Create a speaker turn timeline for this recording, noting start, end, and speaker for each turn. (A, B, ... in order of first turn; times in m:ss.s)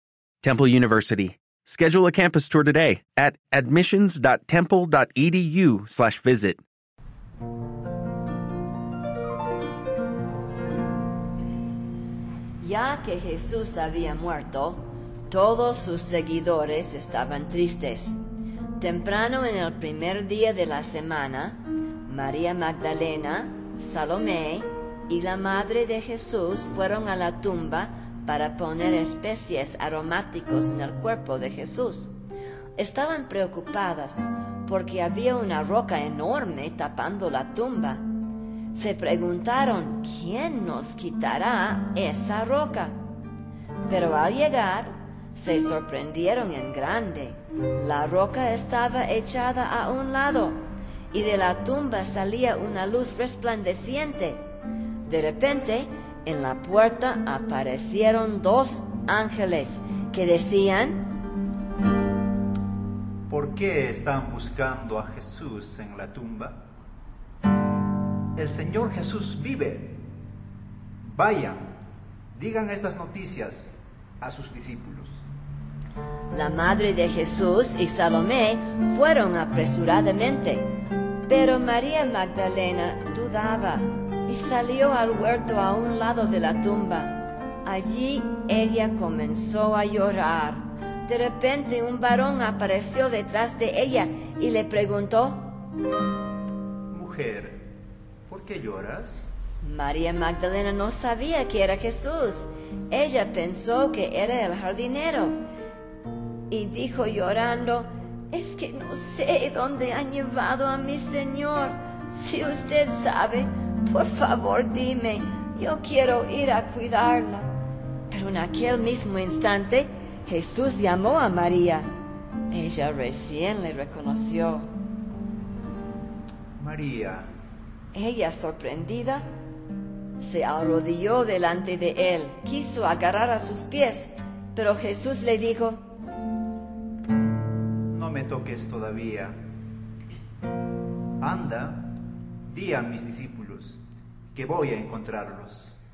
0:00.4-0:06.6 A
0:12.6-0:18.2 B
0:18.8-0:32.1 B
0:32.8-0:38.0 B
0:38.7-0:42.9 B
0:43.9-0:50.6 B
0:51.1-0:54.4 B
0:55.1-1:01.1 B
1:03.3-1:06.6 C
1:08.4-1:10.0 C
1:11.0-1:11.8 C
1:12.3-1:15.2 C
1:16.3-1:20.7 B
1:21.2-1:35.5 B
1:36.9-1:37.6 C
1:38.3-1:39.3 C
1:39.6-1:45.3 B
1:46.5-1:57.5 B
1:58.1-2:01.8 B
2:02.5-2:04.7 B
2:06.6-2:07.3 C
2:07.9-2:09.2 B
2:10.2-2:15.8 B
2:17.9-2:19.4 C
2:21.2-2:21.9 C
2:22.5-2:23.8 C
2:24.3-2:25.8 C